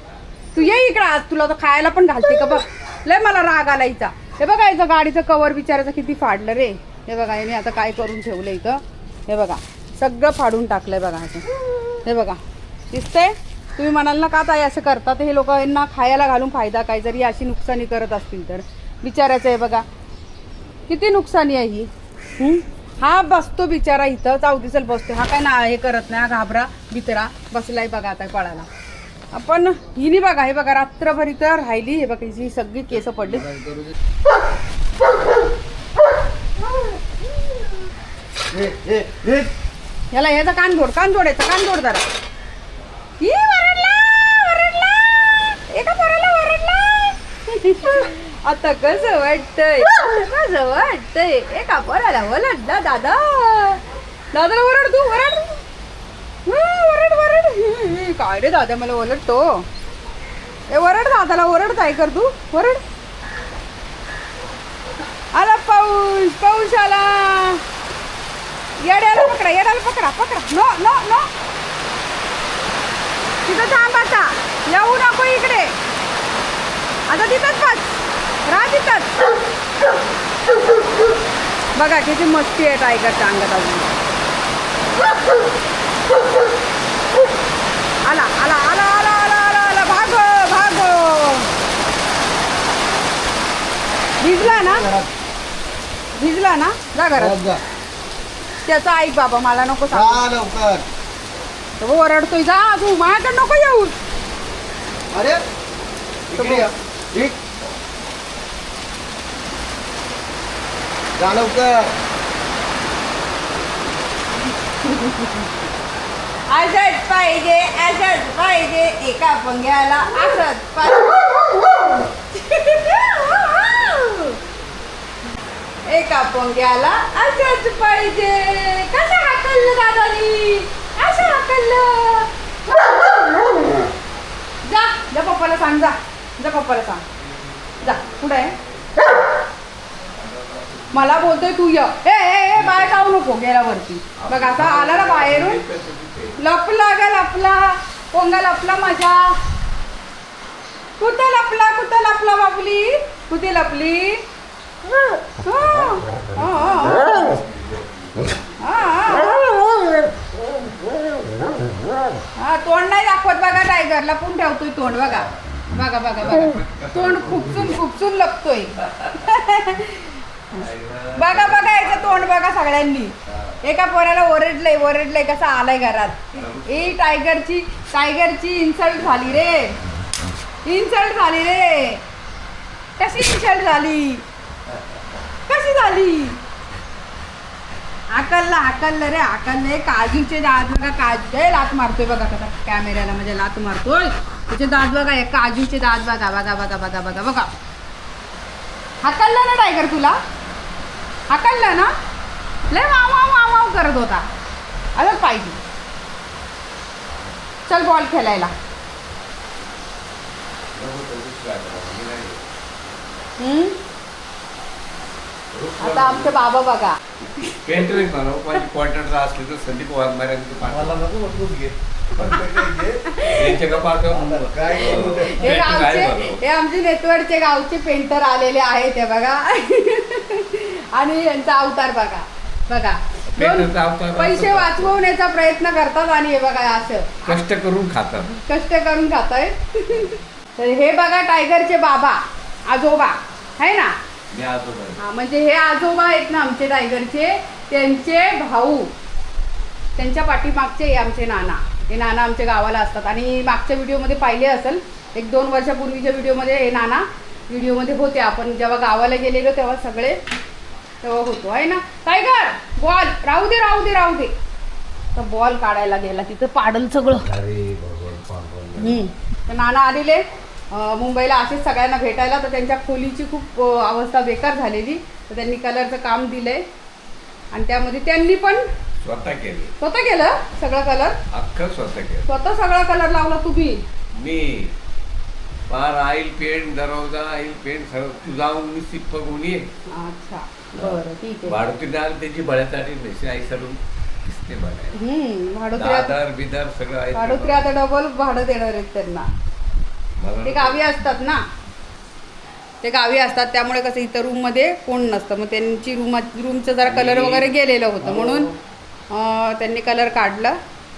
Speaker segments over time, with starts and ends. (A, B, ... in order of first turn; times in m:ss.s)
0:00.5-0:19.8 A
0:20.9-0:28.7 A
0:29.3-0:33.5 A
0:38.5-0:39.5 B
0:40.1-0:42.1 A
0:43.2-0:55.6 A
0:56.4-0:59.6 A
1:00.7-1:02.8 A
1:05.3-1:07.6 A
1:08.8-1:11.3 A
1:13.4-1:15.7 A
1:17.1-1:19.2 A
1:21.7-1:23.9 A
1:28.0-1:31.5 A
1:34.2-1:34.9 A
1:34.5-1:35.1 B
1:36.2-1:37.4 A
1:37.2-1:37.6 B
1:38.6-1:40.2 A
1:39.9-1:40.8 B
1:41.8-1:44.0 A
1:45.1-1:45.4 B
1:46.3-1:47.4 B
1:46.3-1:46.7 A
1:51.2-1:51.9 B
1:54.8-1:55.4 A
1:56.5-2:04.4 A
2:05.9-2:13.6 A
2:14.6-2:17.0 A
2:17.2-2:18.9 C
2:17.8-2:18.5 A
2:20.0-2:21.5 C
2:20.9-2:25.6 A
2:22.5-2:23.1 C
2:24.2-2:26.4 C
2:26.4-2:29.4 A
2:31.0-2:34.2 A
2:35.4-2:37.2 A
2:36.7-2:38.3 C
2:38.6-2:39.8 A
2:42.4-2:50.2 A
2:46.2-2:47.8 C
2:50.5-2:52.3 C
2:51.1-2:59.8 A
2:56.3-2:57.0 C
3:00.6-3:02.0 A
3:03.0-3:04.2 A
3:05.5-3:06.4 A
3:08.1-3:17.5 A
3:19.0-3:20.2 A
3:21.3-3:21.9 A
3:22.7-3:24.3 A
3:25.0-3:25.6 A
3:27.7-3:28.5 A
3:30.7-3:32.4 C
3:33.4-3:33.8 A
3:35.5-3:36.4 C
3:35.8-3:37.9 A
3:37.6-3:41.0 C
3:40.6-3:43.1 B
3:42.1-3:42.5 C
3:42.4-3:43.7 A
3:43.2-3:46.4 C
3:44.1-3:45.6 B
3:44.8-3:57.4 A
3:53.3-3:55.0 C
3:57.2-3:58.4 C
3:58.5-4:04.0 A
4:04.3-4:05.0 C
4:05.0-4:08.9 A
4:10.0-4:20.2 A
4:21.0-4:24.3 A
4:25.1-4:27.3 A
4:27.2-4:29.1 C
4:28.8-4:36.6 A
4:37.5-4:38.7 A
4:39.0-4:39.7 C
4:39.8-4:41.2 A
4:41.3-4:42.3 C
4:42.3-4:43.8 A
4:44.2-4:44.7 C
4:45.7-4:49.7 C
4:49.9-4:51.6 A
4:50.8-4:55.0 C
4:54.9-4:56.1 A
4:55.8-4:57.7 C
4:57.1-4:59.3 A
5:00.2-5:00.8 C
5:00.4-5:01.4 A
5:02.8-5:08.5 A
5:06.8-5:07.5 C
5:08.0-5:08.5 B
5:09.1-5:10.6 A